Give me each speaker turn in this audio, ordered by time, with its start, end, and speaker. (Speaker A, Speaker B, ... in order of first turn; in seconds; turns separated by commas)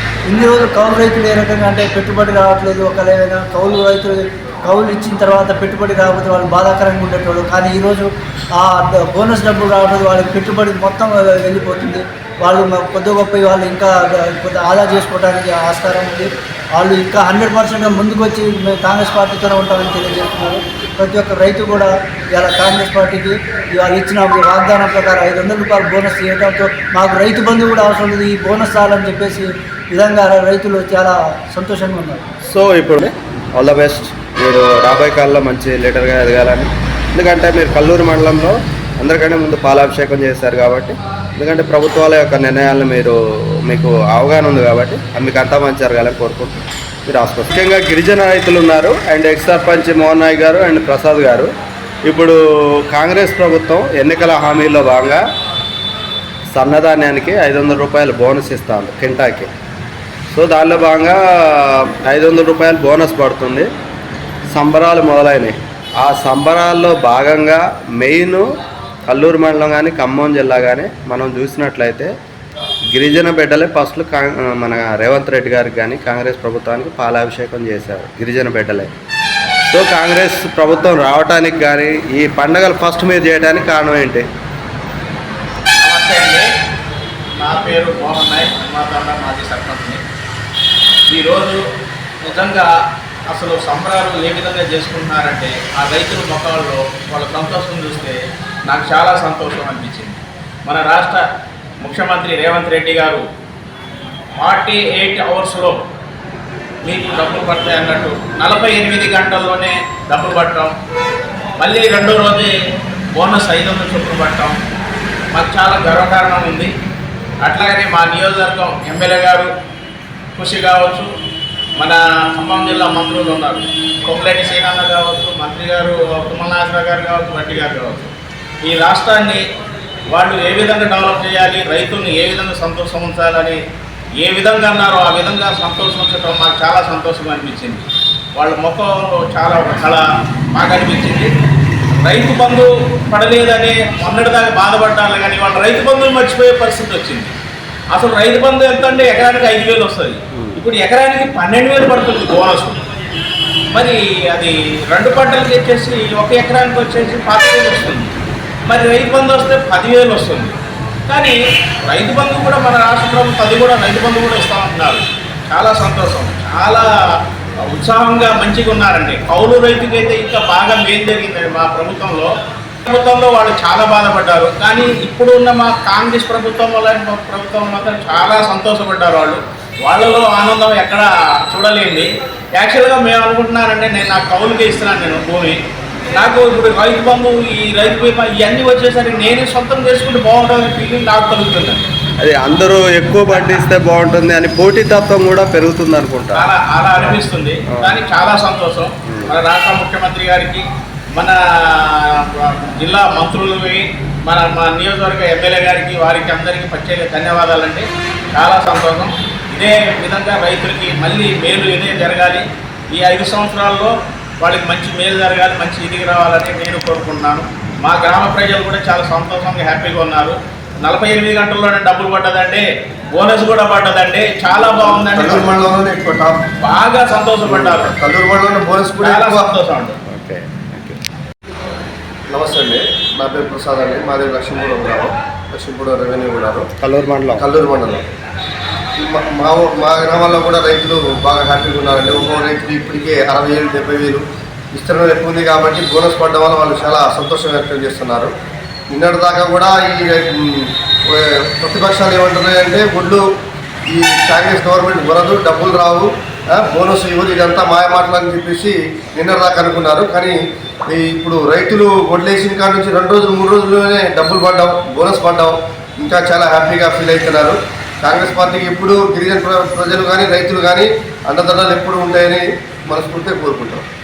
Speaker A: 0.3-32.2, Speaker B: 32.5-51.5, Speaker B: 52.1-55.2, Speaker B: 56.5-59.5, Speaker B: 60.3-63.7, Speaker B: 64.5-68.5, Speaker B: 69.1-72.1, Speaker B: 72.9-78.9, Speaker B: 79.7-84.2, Speaker C: 85.8-86.5, Speaker C: 87.4-90.0, Speaker C: 91.1-91.6, Speaker C: 92.2-92.7, Speaker C: 93.3-101.2, Speaker C: 101.8-103.2, Speaker C: 104.4-105.8, Speaker C: 106.8-110.7, Speaker C: 111.6-112.5, Speaker C: 113.1-114.6, Speaker C: 115.3-116.7, Speaker C: 117.4-119.5, Speaker C: 120.3-121.1, Speaker C: 121.8-128.1, Speaker C: 128.6-129.4, Speaker C: 130.1-133.6, Speaker C: 134.2-141.3, Speaker C: 142.0-147.3, Speaker C: 147.9-152.8, Speaker B: 150.3-150.6, Speaker C: 153.7-158.1, Speaker C: 158.7-160.6, Speaker C: 161.1-166.9, Speaker C: 167.6-172.3, Speaker C: 172.8-185.6, Speaker C: 186.1-191.9, Speaker B: 192.2-196.5, Speaker C: 196.3-225.5, Speaker B: 197.7-198.0, Speaker B: 199.1-199.3, Speaker D: 224.8-226.4, Speaker C: 226.6-228.0, Speaker D: 227.5-229.5, Speaker C: 229.0-230.0, Speaker B: 230.1-231.0, Speaker D: 232.3-236.7, Speaker B: 236.8-237.5, Speaker D: 237.3-238.0, Speaker D: 239.0-248.3, Speaker D: 248.9-253.2, Speaker D: 253.9-260.4, Speaker D: 260.9-273.8